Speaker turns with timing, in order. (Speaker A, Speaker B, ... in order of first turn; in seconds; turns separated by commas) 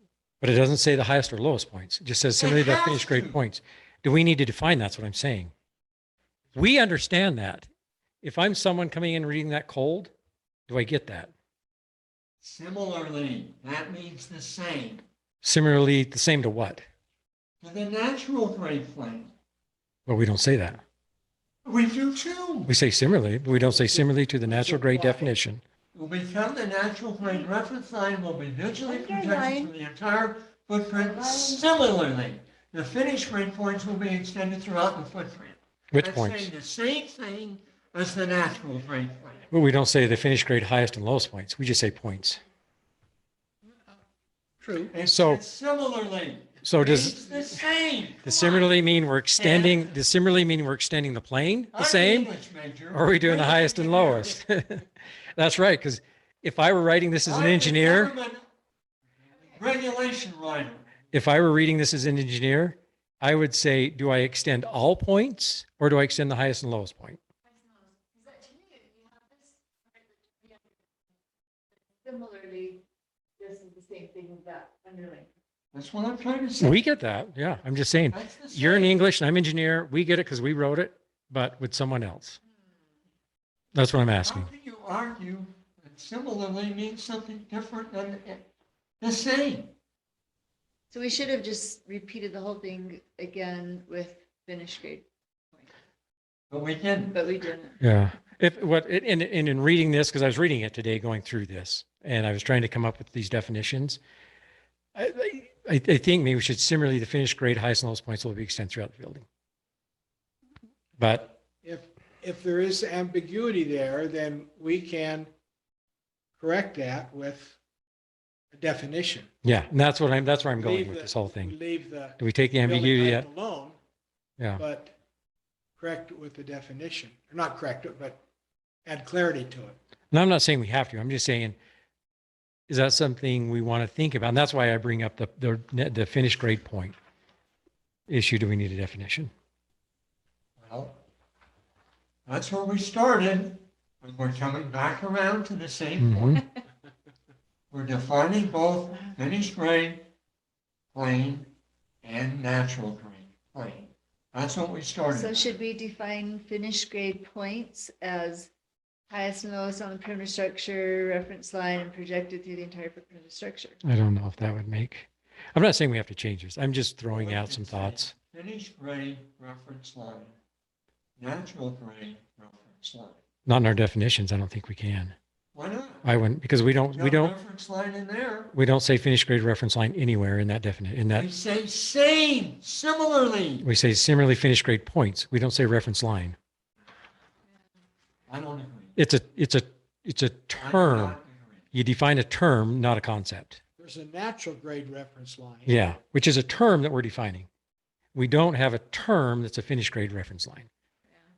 Speaker A: 0.4-5.5, Speaker B: 2.4-3.4, Speaker A: 6.5-7.7, Speaker A: 8.2-10.1, Speaker A: 10.7-11.3, Speaker B: 12.4-15.0, Speaker A: 15.4-16.9, Speaker B: 17.6-19.3, Speaker A: 20.1-20.8, Speaker B: 21.6-22.7, Speaker A: 22.7-25.6, Speaker C: 23.7-25.3, Speaker B: 25.9-39.5, Speaker D: 28.8-29.7, Speaker D: 30.9-31.6, Speaker A: 35.9-36.5, Speaker A: 39.5-42.4, Speaker C: 44.6-44.9, Speaker B: 44.9-48.7, Speaker A: 45.0-45.4, Speaker A: 46.6-47.2, Speaker A: 48.2-52.3, Speaker B: 49.4-49.9, Speaker B: 51.7-54.4, Speaker A: 52.9-54.8, Speaker A: 55.4-58.1, Speaker B: 57.2-58.5, Speaker B: 59.5-60.9, Speaker A: 61.1-67.2, Speaker D: 67.5-70.8, Speaker D: 72.0-72.8, Speaker D: 73.4-75.3, Speaker B: 75.7-76.8, Speaker A: 76.6-82.4, Speaker B: 78.1-79.0, Speaker A: 83.7-84.5, Speaker B: 84.2-89.7, Speaker D: 90.9-95.7, Speaker B: 96.5-97.1, Speaker D: 97.1-97.8, Speaker A: 97.8-104.0, Speaker A: 104.9-109.2, Speaker A: 111.0-111.3, Speaker C: 111.6-115.3, Speaker C: 116.4-117.6, Speaker C: 118.5-119.3, Speaker A: 119.4-121.5, Speaker C: 120.6-123.8, Speaker A: 122.2-123.2, Speaker C: 124.6-124.9, Speaker C: 125.8-128.2, Speaker C: 128.8-129.8, Speaker A: 130.1-131.6, Speaker A: 132.7-136.9, Speaker A: 138.1-139.3, Speaker B: 140.6-141.0, Speaker B: 142.3-146.2, Speaker A: 146.0-146.4, Speaker B: 147.7-150.1, Speaker B: 150.9-155.6, Speaker D: 155.1-158.5, Speaker D: 159.1-163.8, Speaker A: 163.8-168.1, Speaker B: 167.1-170.4, Speaker B: 171.2-173.2, Speaker A: 173.4-175.1, Speaker B: 175.5-176.1, Speaker A: 176.0-177.3, Speaker B: 176.9-178.5, Speaker A: 178.5-181.3, Speaker B: 181.1-183.7, Speaker A: 183.6-186.3, Speaker B: 188.3-188.9, Speaker A: 188.9-191.2, Speaker B: 190.6-191.7, Speaker A: 191.7-193.6, Speaker C: 193.8-195.8, Speaker A: 195.7-197.5, Speaker A: 198.1-200.7